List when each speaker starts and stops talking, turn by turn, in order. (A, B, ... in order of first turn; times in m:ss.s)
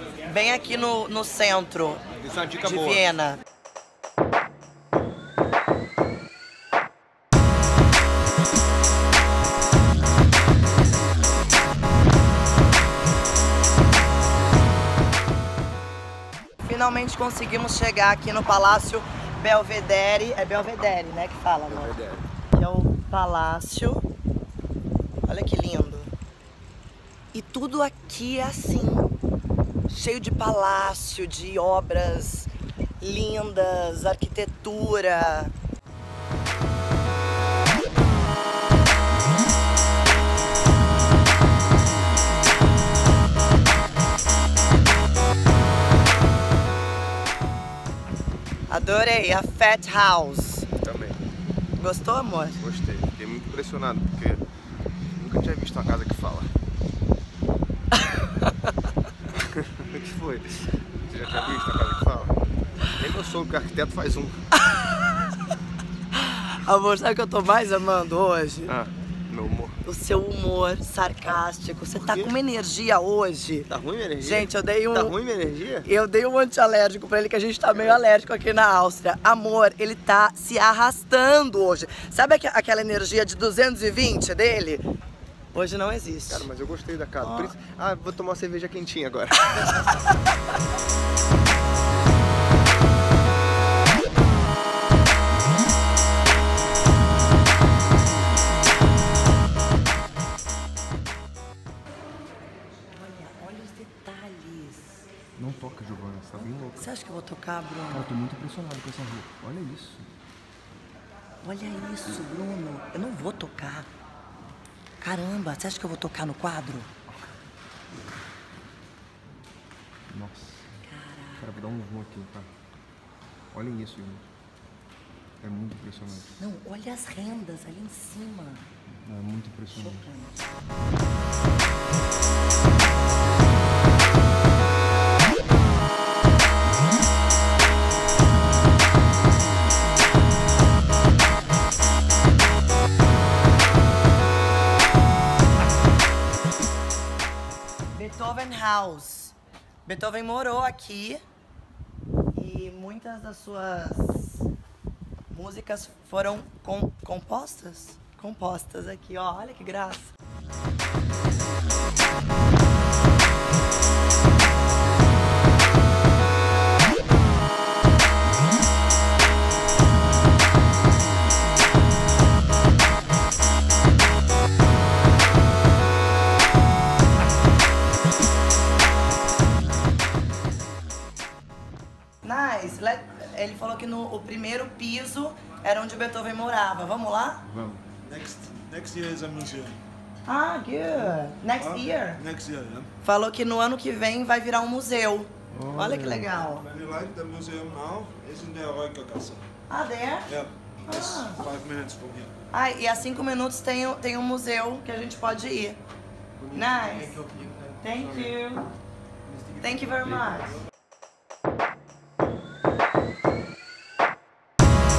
0:00.2-0:02.0 A
0:02.2-0:03.1 B
0:02.6-0:03.4 A
0:16.6-0:22.0 A
0:21.7-0:22.3 B
0:22.5-0:24.0 A
0:25.2-0:26.1 A
0:27.3-0:29.2 A
0:29.9-0:35.5 A
0:48.7-0:50.7 A
0:50.8-0:51.2 B
0:51.8-0:52.6 A
0:52.6-0:54.4 B
0:55.2-0:56.5 B
0:59.4-1:00.5 B
1:01.1-1:02.4 B
1:02.9-1:04.4 B
1:04.5-1:05.4 A
1:06.2-1:08.7 A
1:08.7-1:09.8 B
1:09.8-1:15.1 A
1:12.0-1:12.3 B
1:13.7-1:15.9 B
1:15.8-1:24.8 A
1:25.5-1:26.5 A
1:26.3-1:29.9 B
1:27.2-1:27.5 A
1:29.6-1:29.9 A
1:43.0-1:45.1 A
1:45.4-1:46.8 B
1:46.8-1:48.1 A
1:47.9-1:50.1 B
1:51.4-1:53.9 A
1:55.0-1:56.9 A
2:00.1-2:00.8 B
2:00.9-2:01.5 A
2:01.4-2:02.5 B
2:03.5-2:04.3 B
2:05.4-2:06.4 B
2:06.4-2:08.7 A
2:09.0-2:10.1 B
2:09.7-2:10.4 A
2:27.9-2:31.2 A
2:32.3-2:34.5 A
2:35.3-2:40.1 A
3:02.2-3:07.4 A
3:07.5-3:07.8 B
3:08.0-3:09.8 C
3:10.3-3:12.2 A
3:11.6-3:12.9 C
3:13.0-3:16.6 A
3:15.5-3:16.3 B
3:16.5-3:19.4 C
3:19.7-3:20.3 A
3:20.3-3:22.3 C
3:20.9-3:21.4 A
3:22.5-3:25.8 A
3:26.5-3:27.2 A
3:26.6-3:27.7 B
3:27.8-3:28.7 A
3:29.6-3:30.6 A